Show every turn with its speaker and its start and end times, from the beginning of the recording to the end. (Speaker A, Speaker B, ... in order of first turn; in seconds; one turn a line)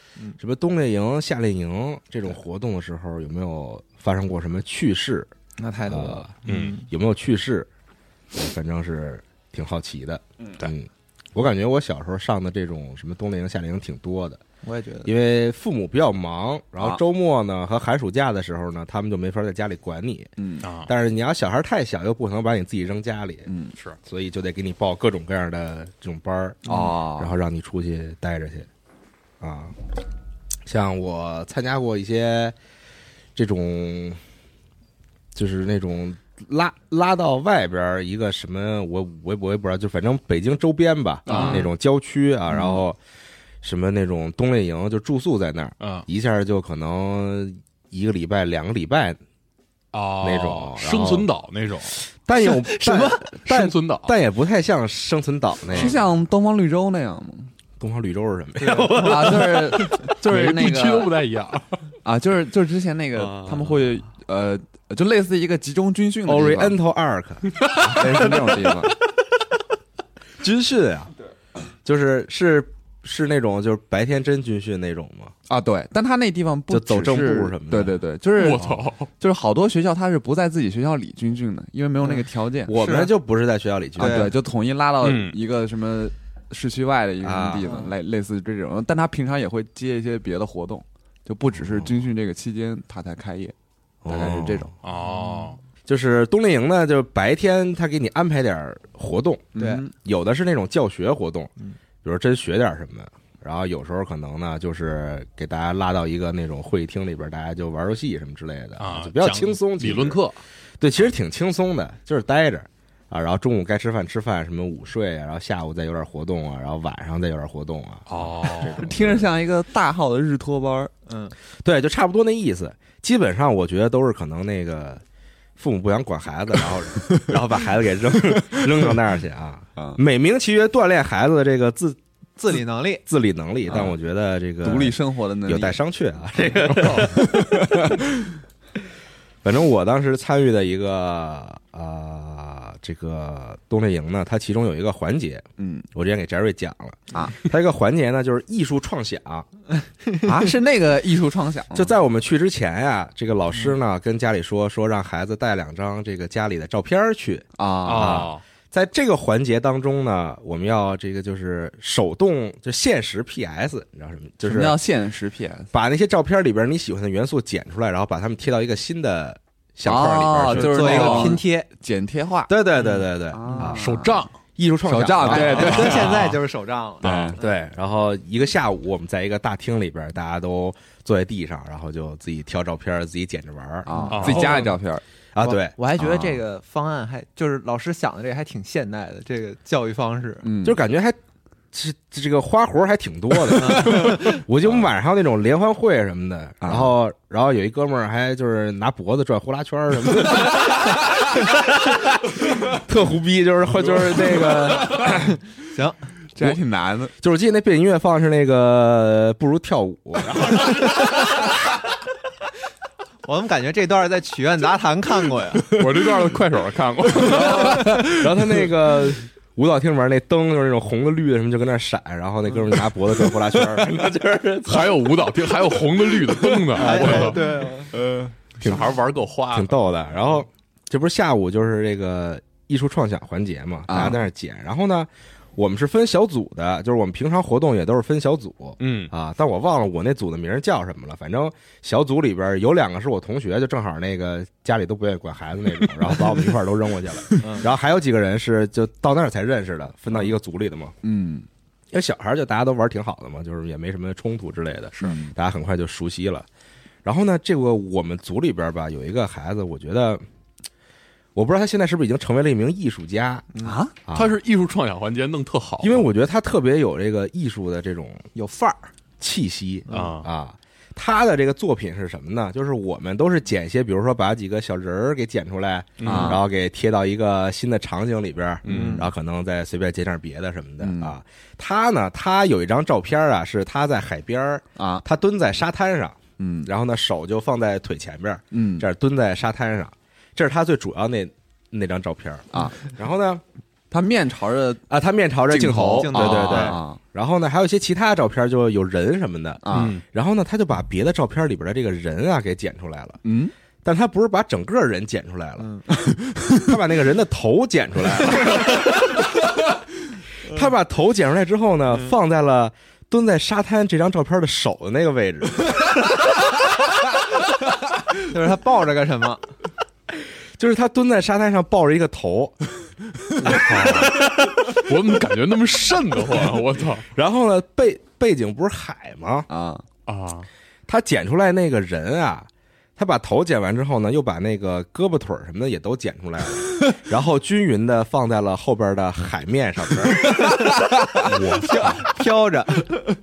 Speaker A: 0.4-5.3
Speaker B: 5.6-6.8
Speaker A: 5.9-7.7
Speaker C: 6.5-6.7
Speaker A: 8.3-14.4
Speaker B: 14.6-15.1
Speaker A: 15.0-20.3
Speaker D: 20.4-20.6
Speaker C: 20.6-20.9
Speaker A: 20.9-23.5
Speaker D: 23.5-23.7
Speaker A: 24.0-28.7
Speaker D: 26.6-27.3
Speaker A: 29.4-29.7
Speaker A: 30.6-32.5
Speaker A: 33.3-34.2
Speaker A: 35.3-43.0
Speaker D: 41.2-41.7
Speaker C: 41.3-41.6
Speaker A: 43.6-49.2
Speaker C: 45.8-46.0
Speaker C: 49.9-52.0
Speaker A: 50.2-51.3
Speaker A: 52.2-56.0
Speaker B: 52.4-53.2
Speaker C: 52.8-54.1
Speaker D: 55.7-57.5
Speaker A: 57.8-60.0
Speaker B: 58.6-59.4
Speaker D: 59.0-61.1
Speaker C: 59.9-61.7
Speaker D: 62.0-66.8
Speaker A: 66.2-67.7
Speaker D: 67.7-68.9
Speaker A: 70.4-71.1
Speaker A: 71.8-75.3
Speaker D: 75.5-78.6
Speaker A: 76.7-78.0
Speaker C: 78.3-79.1
Speaker D: 79.2-82.7
Speaker B: 82.0-83.1
Speaker A: 82.7-84.3
Speaker D: 84.0-93.5
Speaker B: 84.0-84.3
Speaker C: 85.0-85.4
Speaker A: 87.2-87.7
Speaker A: 91.6-91.9
Speaker A: 94.0-94.7
Speaker D: 94.1-94.7
Speaker C: 94.8-95.6
Speaker A: 95.8-101.5
Speaker D: 99.5-99.9
Speaker B: 99.6-99.8
Speaker A: 102.0-110.2
Speaker C: 108.8-110.4
Speaker A: 110.8-119.2
Speaker C: 118.1-118.9
Speaker D: 118.7-120.9
Speaker B: 121.0-121.3
Speaker A: 121.6-125.0
Speaker A: 125.6-132.0
Speaker B: 132.4-133.0
Speaker A: 132.5-137.5
Speaker D: 133.7-133.9
Speaker D: 134.6-135.8
Speaker C: 136.5-137.2
Speaker D: 137.0-137.8
Speaker A: 139.4-149.5
Speaker D: 145.6-145.9
Speaker D: 150.2-151.9
Speaker A: 151.7-164.8
Speaker D: 157.6-158.3
Speaker C: 157.8-158.4
Speaker D: 164.4-165.7
Speaker A: 165.7-171.4
Speaker D: 169.8-172.5
Speaker B: 170.5-171.7
Speaker A: 172.5-174.0
Speaker D: 173.3-174.2
Speaker C: 173.8-174.3
Speaker A: 174.6-176.2
Speaker D: 174.8-176.2
Speaker B: 175.3-177.6
Speaker C: 175.3-176.4
Speaker C: 177.0-177.3
Speaker A: 177.0-184.8
Speaker D: 177.0-177.3
Speaker D: 183.8-185.0
Speaker C: 184.1-184.6
Speaker A: 185.3-186.3
Speaker B: 185.4-190.4
Speaker D: 186.0-186.3
Speaker D: 190.4-190.8
Speaker A: 190.6-191.2
Speaker A: 191.7-205.3
Speaker B: 193.5-194.4
Speaker B: 205.0-206.0
Speaker D: 206.3-207.1
Speaker A: 207.2-211.0
Speaker B: 213.2-215.8
Speaker C: 215.7-218.1
Speaker A: 217.2-227.4
Speaker C: 224.7-227.4
Speaker B: 226.7-227.9
Speaker D: 227.9-228.3
Speaker C: 228.6-229.8
Speaker A: 228.6-228.9
Speaker A: 229.5-250.9
Speaker D: 233.9-234.2
Speaker C: 238.8-239.1
Speaker B: 247.4-247.7
Speaker D: 251.0-251.4
Speaker A: 251.9-256.5
Speaker D: 255.0-255.3
Speaker A: 257.0-260.2
Speaker A: 261.3-263.5
Speaker D: 263.6-263.9
Speaker A: 264.1-264.4
Speaker C: 264.1-266.1
Speaker A: 265.8-268.3
Speaker B: 268.3-268.9
Speaker A: 269.2-293.4
Speaker C: 269.9-270.3
Speaker C: 276.0-276.4
Speaker D: 276.0-276.4
Speaker C: 278.6-279.0
Speaker D: 278.6-279.1
Speaker B: 278.7-279.0
Speaker D: 280.8-281.1
Speaker D: 284.8-285.0
Speaker D: 286.4-286.7
Speaker D: 288.5-288.9
Speaker D: 292.5-292.8
Speaker D: 293.9-294.8
Speaker A: 294.9-303.2
Speaker B: 295.6-296.8
Speaker D: 295.9-297.0
Speaker C: 296.0-296.7
Speaker D: 299.6-299.9
Speaker C: 299.7-300.0
Speaker D: 303.2-303.5
Speaker A: 303.8-305.8
Speaker B: 305.6-305.8
Speaker D: 305.9-306.7
Speaker A: 306.5-309.2
Speaker A: 310.4-315.7
Speaker B: 318.3-319.4
Speaker A: 320.6-322.6
Speaker C: 323.4-327.1
Speaker A: 327.1-329.5
Speaker D: 329.5-329.8
Speaker C: 330.1-330.5
Speaker A: 330.9-340.4
Speaker C: 341.2-342.2
Speaker B: 341.2-343.1